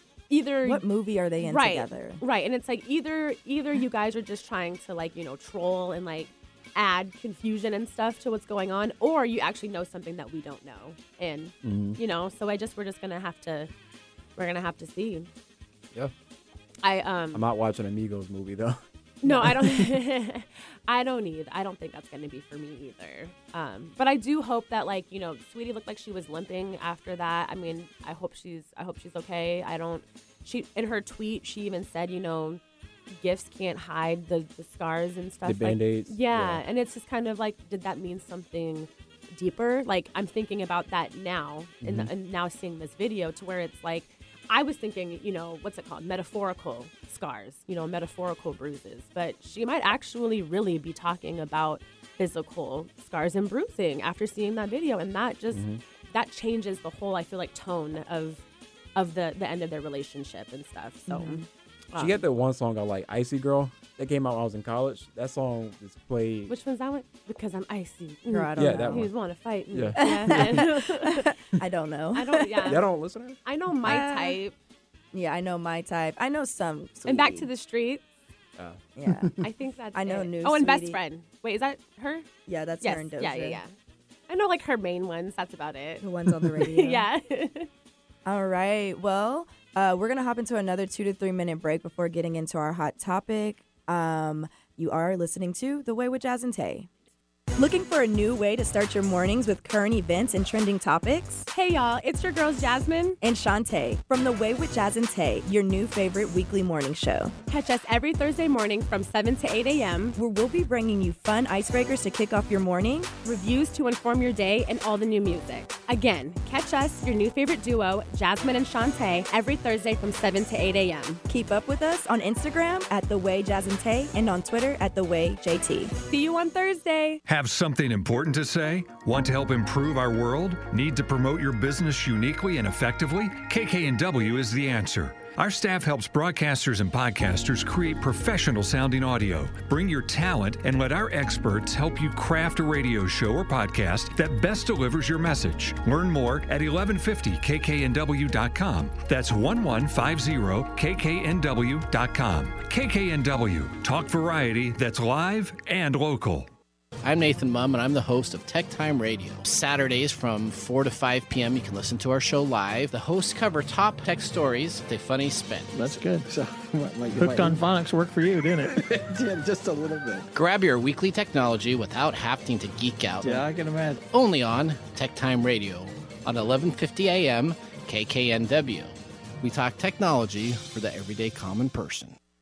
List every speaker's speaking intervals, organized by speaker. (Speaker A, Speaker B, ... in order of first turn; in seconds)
Speaker A: 0.3-0.8, 1.4-13.7, 14.3-15.3, 16.8-17.4, 19.2-58.4, 58.9-62.2, 66.5-71.3, 72.1-72.8, 73.4-74.5, 77.0-78.0, 79.4-82.3, 82.8-83.7, 84.3-87.7, 101.5-103.2, 107.5-110.2, 113.2-121.2, 126.1-127.2
Speaker B: 0.6-2.2, 19.2-19.5, 61.1-61.5, 68.3-69.1, 70.0-72.8, 73.8-74.4, 75.1-77.5, 79.0-79.3, 79.9-81.0, 82.5-83.6, 86.0-87.1, 88.2-96.9, 97.5-101.5, 103.2-107.3, 110.2-113.1, 121.3-125.9
Speaker C: 11.6-12.0, 17.3-18.8, 19.3-19.9, 35.4-36.6, 41.8-42.1, 55.5-55.8, 62.0-66.5, 68.6-69.1, 69.7-70.7, 72.7-73.4, 78.6-79.4
Speaker D: 127.2-156.5
Speaker E: 157.0-166.0, 167.2-167.6, 170.3-173.4, 174.1-182.2
Speaker F: 165.7-170.3, 173.2-174.0